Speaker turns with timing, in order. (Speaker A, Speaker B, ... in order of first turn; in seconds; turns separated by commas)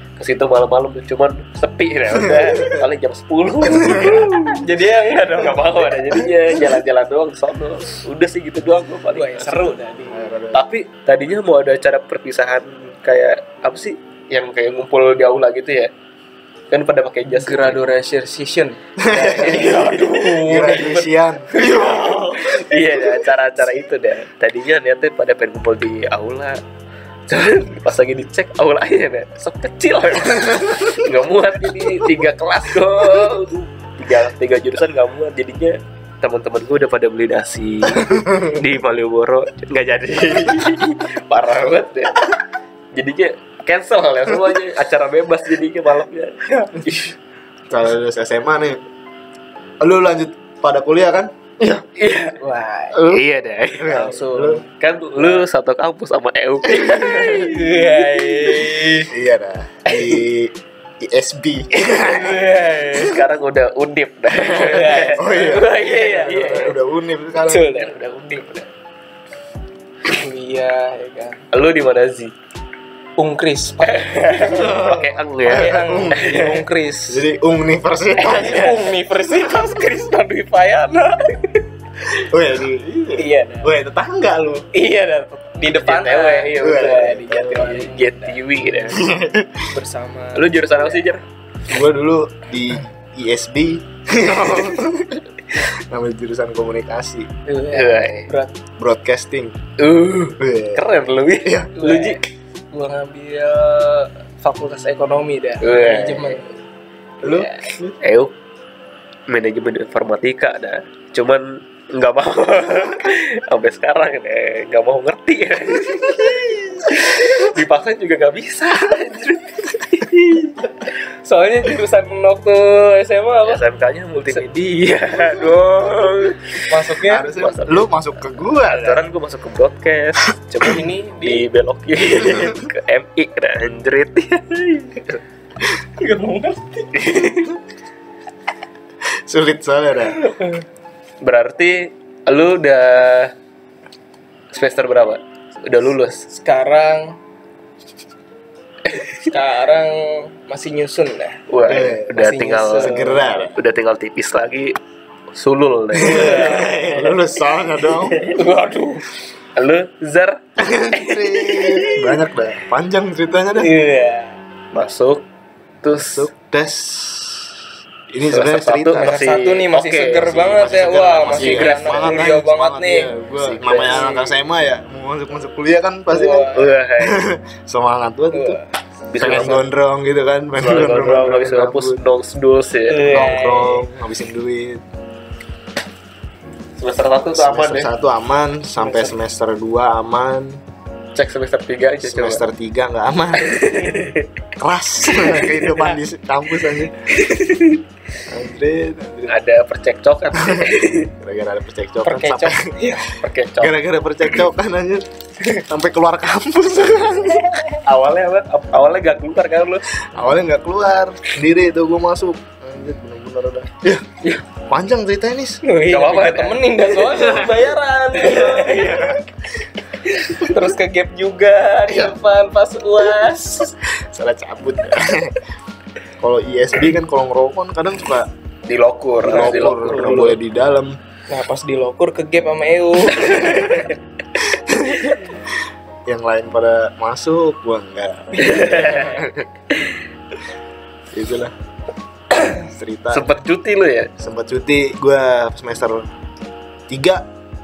Speaker A: 0.2-4.6, Speaker B: 3.7-4.3, Speaker C: 4.4-5.7, Speaker A: 5.2-9.7, Speaker C: 9.1-10.3, Speaker B: 10.1-10.6, Speaker A: 10.5-15.9, Speaker A: 16.7-17.8, Speaker C: 17.4-22.4, Speaker B: 19.0-19.9, Speaker A: 19.1-20.4, Speaker B: 20.4-22.4, Speaker A: 21.6-26.6, Speaker A: 27.3-42.2, Speaker B: 38.0-38.6, Speaker A: 42.9-47.1, Speaker B: 47.7-48.8, Speaker B: 49.8-51.8, Speaker A: 52.0-52.3, Speaker C: 52.0-53.0, Speaker A: 53.0-54.0, Speaker B: 53.8-54.6, Speaker C: 53.9-54.6, Speaker A: 54.8-58.0, Speaker C: 56.8-59.1, Speaker B: 59.1-62.5, Speaker C: 61.8-63.2, Speaker A: 62.9-66.8, Speaker C: 64.4-66.7, Speaker B: 65.1-67.7, Speaker C: 67.4-68.0, Speaker A: 67.5-68.7, Speaker C: 70.1-71.4, Speaker A: 71.5-72.3, Speaker C: 73.2-74.8, Speaker A: 73.8-76.6, Speaker B: 74.5-78.8, Speaker C: 75.5-77.3, Speaker C: 78.3-81.6, Speaker B: 82.2-84.7, Speaker C: 83.2-83.7, Speaker C: 84.7-88.4, Speaker A: 85.7-89.0, Speaker B: 86.6-87.8, Speaker B: 88.9-89.7, Speaker C: 89.7-91.0, Speaker A: 90.3-91.2, Speaker B: 91.7-97.3, Speaker C: 97.5-98.5, Speaker A: 97.7-98.3, Speaker B: 98.8-99.6, Speaker A: 99.8-102.2, Speaker B: 100.4-100.8, Speaker B: 101.5-101.7, Speaker C: 101.8-106.5, Speaker A: 105.6-106.4, Speaker B: 107.2-108.0, Speaker C: 107.2-107.7, Speaker A: 108.0-108.3, Speaker A: 109.3-120.6, Speaker C: 120.8-123.6, Speaker A: 123.5-127.9, Speaker C: 126.7-127.3, Speaker B: 127.1-129.0, Speaker A: 128.5-135.2, Speaker C: 130.5-131.5, Speaker C: 136.0-137.2, Speaker A: 136.9-137.6, Speaker B: 139.3-140.2, Speaker C: 140.2-140.5, Speaker A: 141.2-143.3, Speaker A: 144.5-146.2, Speaker C: 146.3-147.2, Speaker C: 149.1-153.4, Speaker A: 151.5-154.8, Speaker B: 151.7-152.2, Speaker B: 152.8-153.6, Speaker A: 155.3-157.1, Speaker B: 155.9-158.2, Speaker C: 156.0-157.0, Speaker A: 157.9-158.4, Speaker C: 158.2-159.1, Speaker A: 159.6-162.2, Speaker B: 160.6-163.8, Speaker C: 163.6-164.4, Speaker A: 164.7-165.2, Speaker A: 165.8-166.3, Speaker B: 166.0-167.6, Speaker B: 168.1-169.1, Speaker A: 168.3-172.3, Speaker C: 169.0-173.1, Speaker B: 170.5-178.6, Speaker A: 173.4-174.1, Speaker C: 173.7-174.3, Speaker C: 176.1-176.7, Speaker A: 176.3-177.3, Speaker C: 178.3-178.7, Speaker A: 179.1-179.7, Speaker B: 179.2-182.0, Speaker A: 180.6-183.2, Speaker C: 182.9-183.8, Speaker B: 183.0-184.8, Speaker A: 186.8-187.9, Speaker B: 187.3-190.6, Speaker A: 191.2-192.4, Speaker B: 192.0-193.8, Speaker A: 193.4-194.3, Speaker B: 194.6-197.1, Speaker C: 197.3-197.7, Speaker B: 198.3-199.4, Speaker A: 199.3-201.1, Speaker B: 200.3-203.0, Speaker C: 202.1-203.2, Speaker A: 203.2-203.8, Speaker B: 203.6-205.0, Speaker B: 205.6-207.6, Speaker A: 207.8-209.9, Speaker B: 210.0-214.1, Speaker B: 214.7-215.6, Speaker C: 215.6-219.2, Speaker A: 215.9-219.2, Speaker C: 220.1-223.8, Speaker B: 221.9-222.2, Speaker B: 223.9-225.4, Speaker B: 226.2-228.3, Speaker A: 228.7-230.4, Speaker B: 229.2-231.0, Speaker C: 229.3-230.3, Speaker C: 231.3-233.9, Speaker B: 234.5-235.2, Speaker B: 236.1-239.5, Speaker A: 238.4-239.2, Speaker C: 238.5-239.1, Speaker B: 241.1-241.5, Speaker B: 242.6-243.3, Speaker A: 243.1-244.1, Speaker B: 244.2-246.1, Speaker B: 246.9-247.2